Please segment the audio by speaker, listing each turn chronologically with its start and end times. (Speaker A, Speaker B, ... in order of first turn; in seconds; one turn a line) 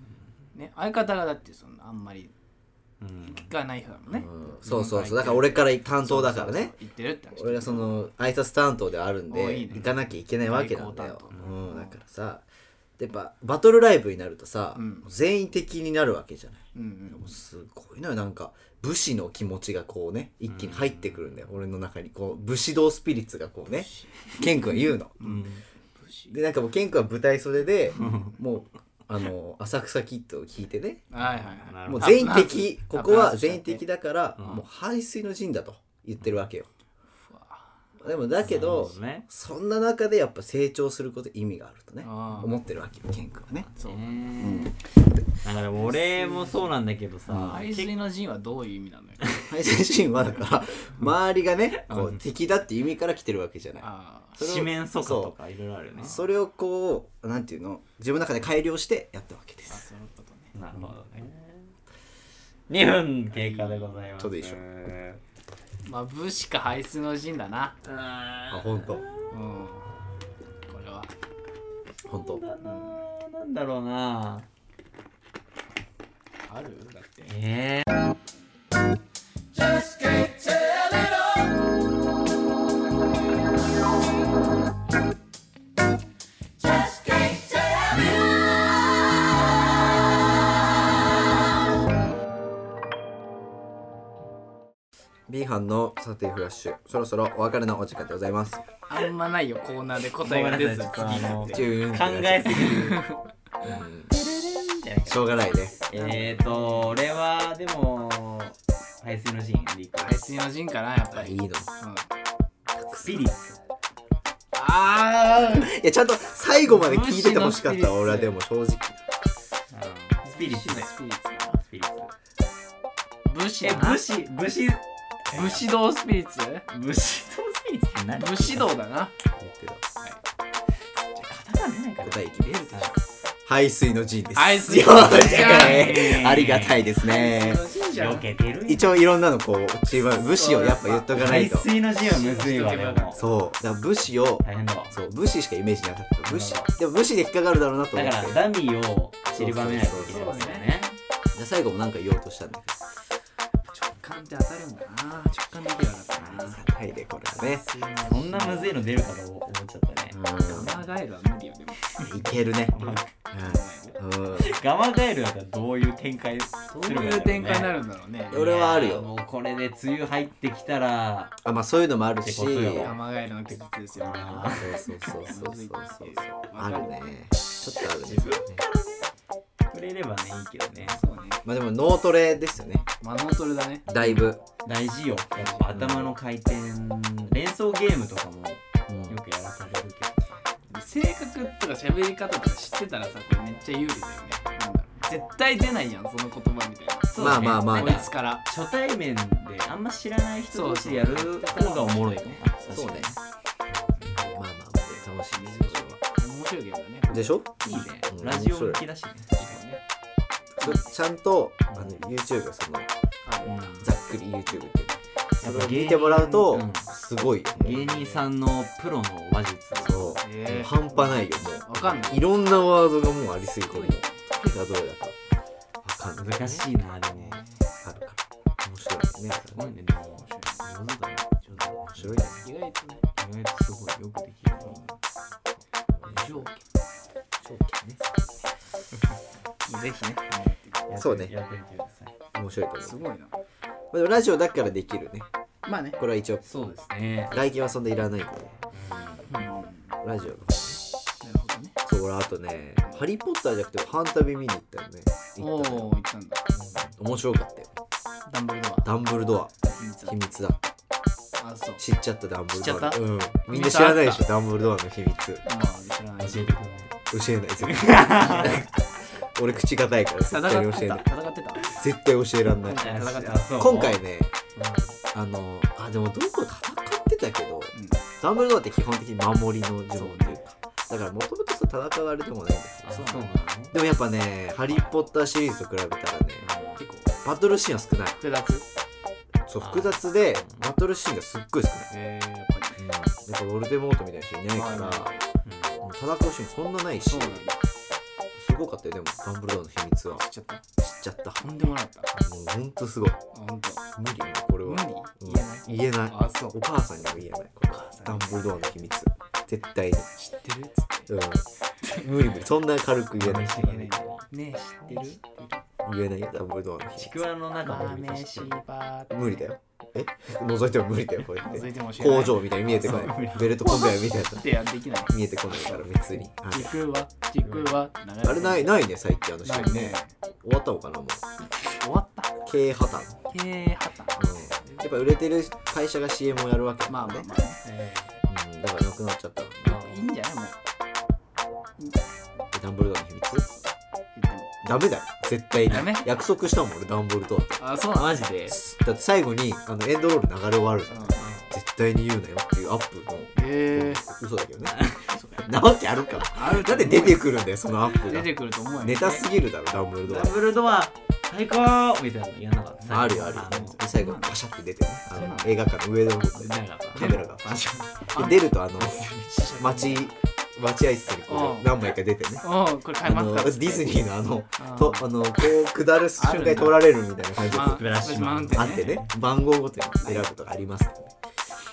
Speaker A: 0.5-2.3
Speaker B: 3.0-3.5
Speaker A: 3.2-7.9
Speaker C: 4.1-6.8
Speaker C: 7.3-12.4
Speaker A: 9.3-12.0
Speaker B: 11.3-11.6
Speaker C: 13.0-25.1
Speaker A: 14.8-15.1
Speaker A: 16.7-17.3
Speaker B: 20.5-21.2
Speaker A: 23.8-24.1
Speaker B: 25.2-25.6
Speaker A: 25.2-26.3
Speaker C: 26.3-31.0
Speaker B: 28.0-28.3
Speaker A: 31.1-33.9
Speaker B: 31.4-32.4
Speaker C: 31.9-36.7
Speaker B: 34.4-34.7
Speaker A: 37.2-37.7
Speaker C: 38.0-43.7
Speaker B: 38.4-39.2
Speaker A: 42.0-42.6
Speaker A: 43.8-44.3
Speaker B: 43.8-44.7
Speaker C: 44.4-44.8
Speaker B: 45.4-48.0
Speaker A: 45.8-46.7
Speaker A: 47.3-49.5
Speaker C: 49.5-53.9
Speaker B: 51.8-52.2
Speaker A: 53.8-54.4
Speaker C: 54.4-55.4
Speaker B: 54.4-56.2
Speaker C: 56.0-59.9
Speaker A: 59.7-60.9
Speaker B: 60.5-61.7
Speaker B: 62.7-65.2
Speaker A: 63.3-64.1
Speaker C: 64.2-64.6
Speaker A: 65.8-67.8
Speaker B: 67.8-69.3
Speaker C: 68.5-69.1
Speaker A: 69.3-69.9
Speaker A: 70.7-71.1
Speaker C: 72.1-72.4
Speaker B: 72.2-74.5
Speaker A: 72.6-73.0
Speaker A: 76.5-77.3
Speaker B: 77.3-77.9
Speaker C: 95.3-98.7
Speaker A: 98.9-101.7
Speaker B: 100.2-103.0
Speaker C: 101.5-102.9
Speaker A: 102.7-103.2
Speaker C: 103.6-104.1
Speaker B: 104.1-110.2
Speaker C: 105.1-105.8
Speaker A: 105.9-107.0
Speaker A: 110.0-112.1
Speaker C: 111.1-111.7
Speaker C: 112.8-113.2
Speaker B: 112.9-113.6
Speaker A: 114.5-115.7
Speaker C: 115.3-119.0
Speaker A: 116.7-118.3
Speaker B: 119.7-120.9
Speaker A: 120.2-121.6
Speaker B: 121.6-122.1
Speaker A: 123.3-124.0
Speaker B: 123.6-125.7
Speaker A: 125.3-126.7
Speaker B: 126.7-128.7
Speaker A: 128.2-129.1
Speaker C: 129.4-129.8
Speaker B: 131.2-132.9
Speaker C: 132.0-132.9
Speaker A: 132.5-132.9
Speaker C: 133.5-137.6
Speaker A: 134.3-136.3
Speaker B: 135.0-136.8
Speaker A: 136.8-138.3
Speaker B: 137.8-138.9
Speaker C: 138.7-141.7
Speaker A: 140.0-141.2
Speaker B: 141.1-143.2
Speaker A: 142.0-143.3
Speaker C: 143.2-148.4
Speaker B: 144.4-145.0
Speaker B: 146.3-146.7
Speaker B: 147.9-151.0
Speaker C: 149.3-150.5
Speaker A: 150.1-150.7
Speaker C: 151.3-152.8
Speaker A: 153.9-156.6
Speaker C: 156.2-157.6
Speaker A: 157.4-158.8
Speaker B: 158.0-160.8
Speaker C: 160.1-160.8
Speaker A: 160.5-164.0
Speaker C: 162.0-164.6
Speaker B: 162.7-163.1
Speaker B: 164.4-167.8
Speaker A: 166.7-168.4
Speaker C: 168.3-169.1
Speaker B: 168.3-171.4
Speaker C: 171.4-173.0
Speaker B: 172.2-173.0
Speaker A: 172.8-177.0
Speaker B: 174.0-174.9
Speaker C: 174.6-178.6
Speaker B: 177.8-179.1
Speaker B: 179.7-181.0
Speaker A: 180.8-181.4
Speaker C: 181.4-182.9
Speaker A: 183.0-183.9
Speaker C: 183.9-184.4
Speaker B: 184.0-190.2
Speaker A: 185.4-185.7
Speaker C: 185.7-186.1
Speaker C: 188.9-189.2
Speaker A: 190.7-198.4
Speaker B: 197.1-203.2
Speaker C: 197.2-198.1
Speaker A: 200.5-202.9
Speaker C: 202.7-203.1
Speaker C: 204.1-206.0
Speaker A: 205.3-208.1
Speaker C: 207.1-208.8
Speaker B: 207.7-209.6
Speaker A: 209.4-209.8
Speaker C: 210.6-212.9
Speaker B: 211.7-212.0
Speaker A: 213.2-213.8
Speaker B: 213.4-213.8
Speaker C: 213.8-217.9
Speaker B: 215.4-216.9
Speaker B: 217.6-220.2
Speaker A: 217.6-218.3
Speaker C: 219.8-225.2
Speaker A: 220.2-222.3
Speaker A: 223.7-224.2
Speaker C: 225.8-226.7
Speaker B: 226.2-227.4
Speaker A: 227.1-227.7
Speaker C: 227.8-229.8
Speaker B: 229.4-232.2
Speaker A: 230.2-230.7
Speaker C: 231.9-232.4
Speaker A: 232.4-233.1
Speaker B: 233.2-234.9
Speaker C: 236.0-236.5
Speaker A: 236.1-236.6
Speaker C: 237.4-238.0
Speaker A: 239.7-240.9
Speaker B: 240.9-242.2
Speaker C: 241.0-241.3
Speaker C: 242.3-243.0
Speaker A: 242.8-243.4
Speaker C: 243.9-245.3
Speaker A: 245.7-246.0
Speaker C: 246.0-246.4
Speaker B: 246.4-247.4
Speaker C: 247.3-248.6
Speaker B: 248.7-249.4
Speaker A: 249.3-249.8
Speaker C: 250.0-250.8
Speaker A: 251.2-251.8
Speaker C: 251.8-255.9
Speaker A: 255.4-256.5
Speaker C: 256.8-257.8
Speaker A: 258.3-258.9
Speaker C: 258.8-260.7
Speaker A: 259.6-260.2
Speaker A: 261.4-261.8
Speaker C: 261.8-265.4
Speaker A: 262.5-264.3
Speaker A: 265.4-266.5
Speaker B: 266.2-267.0
Speaker C: 267.1-268.8
Speaker B: 267.6-268.7
Speaker A: 268.3-268.6
Speaker C: 269.3-271.1
Speaker A: 270.2-271.8
Speaker C: 271.7-272.9
Speaker A: 272.6-273.5
Speaker B: 272.7-274.0
Speaker C: 273.5-274.4
Speaker B: 274.6-275.0
Speaker C: 275.1-286.5
Speaker A: 277.7-278.0
Speaker A: 279.9-280.4
Speaker B: 282.8-283.8
Speaker A: 282.9-283.4
Speaker B: 286.4-286.8
Speaker A: 286.8-287.2
Speaker C: 287.2-288.2
Speaker A: 288.2-288.6
Speaker C: 289.5-291.9
Speaker B: 290.4-290.6
Speaker A: 291.9-292.8
Speaker C: 292.8-295.1
Speaker A: 294.6-295.2
Speaker B: 295.4-295.8
Speaker C: 295.8-297.5
Speaker A: 297.1-297.6
Speaker C: 298.4-300.2
Speaker A: 300.1-300.6
Speaker C: 300.8-301.4
Speaker A: 301.4-302.1
Speaker C: 302.1-303.2
Speaker A: 303.3-303.9
Speaker C: 304.0-310.1
Speaker A: 304.6-306.6
Speaker A: 307.7-308.4
Speaker A: 310.2-311.1
Speaker C: 311.1-313.6
Speaker B: 313.2-314.2
Speaker A: 313.6-315.6
Speaker C: 315.8-317.3
Speaker B: 317.0-318.6
Speaker A: 317.6-319.4
Speaker C: 319.1-324.5
Speaker A: 321.4-325.9
Speaker B: 322.8-323.6
Speaker C: 325.1-326.7
Speaker A: 326.5-328.8
Speaker B: 327.4-327.7
Speaker C: 328.2-331.2
Speaker A: 329.4-330.1
Speaker A: 331.7-332.4
Speaker C: 332.4-333.2
Speaker A: 333.3-334.8
Speaker C: 334.2-337.3
Speaker A: 336.9-338.2
Speaker C: 338.3-340.0
Speaker A: 339.6-340.6
Speaker C: 342.5-343.5
Speaker A: 344.1-344.5
Speaker C: 344.6-347.6
Speaker A: 345.7-346.1
Speaker A: 347.6-348.6
Speaker B: 348.0-348.5
Speaker C: 348.5-354.8
Speaker A: 350.9-351.5
Speaker A: 353.4-354.0
Speaker B: 354.7-355.1
Speaker A: 355.1-355.5
Speaker C: 355.4-360.4
Speaker A: 356.2-357.2
Speaker A: 358.0-359.3
Speaker B: 360.1-363.8
Speaker C: 362.9-369.1
Speaker A: 363.5-364.4
Speaker A: 365.1-365.6
Speaker B: 366.4-368.1
Speaker A: 367.0-367.3
Speaker A: 368.1-370.1
Speaker B: 368.8-369.3
Speaker C: 369.6-372.4
Speaker A: 371.3-371.8
Speaker A: 372.4-374.1
Speaker C: 373.0-377.8
Speaker A: 374.6-375.1
Speaker A: 376.2-376.8
Speaker A: 377.5-379.0
Speaker B: 377.5-379.1
Speaker C: 378.6-381.1
Speaker A: 380.0-380.2